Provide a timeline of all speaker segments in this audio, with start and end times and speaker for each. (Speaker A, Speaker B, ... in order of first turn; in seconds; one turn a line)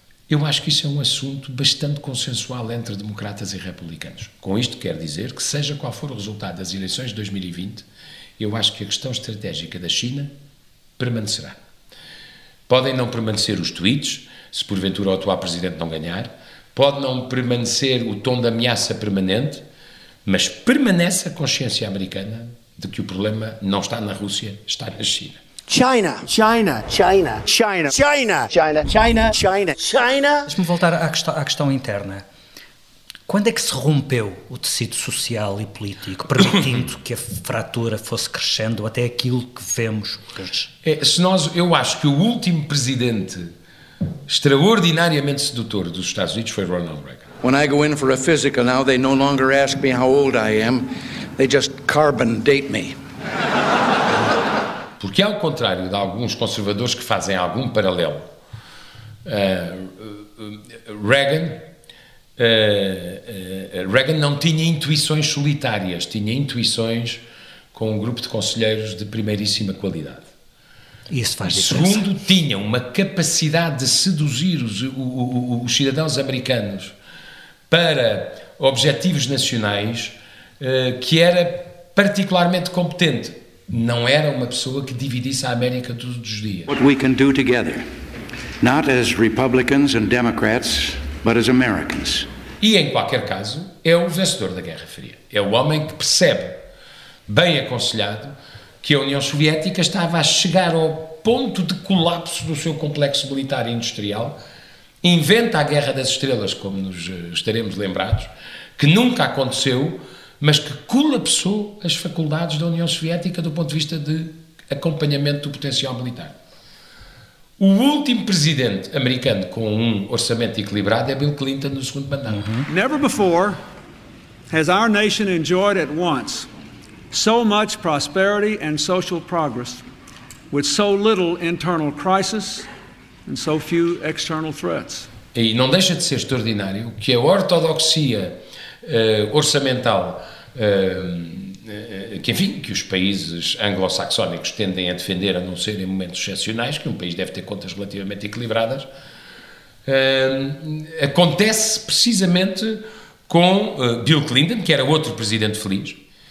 Speaker A: 0.3-7.8
Speaker A: 8.4-10.3
Speaker A: 11.0-11.6
Speaker A: 12.7-19.6
Speaker A: 20.2-25.4
Speaker B: 25.7-30.5
Speaker C: 30.5-32.2
Speaker C: 33.3-40.7
Speaker A: 40.8-43.5
Speaker A: 44.3-47.2
Speaker D: 47.4-53.0
Speaker A: 55.0-58.3
Speaker A: 59.2-61.6
Speaker A: 62.4-67.2
Speaker A: 67.7-70.3
Speaker C: 71.1-72.0
Speaker A: 71.5-76.9
Speaker A: 77.7-86.7
Speaker D: 86.7-87.8
Speaker D: 88.6-92.3
Speaker A: 92.6-96.6
Speaker A: 97.3-104.4
Speaker A: 105.0-116.4
Speaker A: 117.6-122.5
Speaker C: 122.3-122.7
Speaker E: 122.7-123.6
Speaker E: 124.5-126.5
Speaker E: 127.1-129.8
Speaker E: 130.5-132.7
Speaker E: 133.2-135.1
Speaker A: 135.3-148.9
Speaker A: 149.8-156.0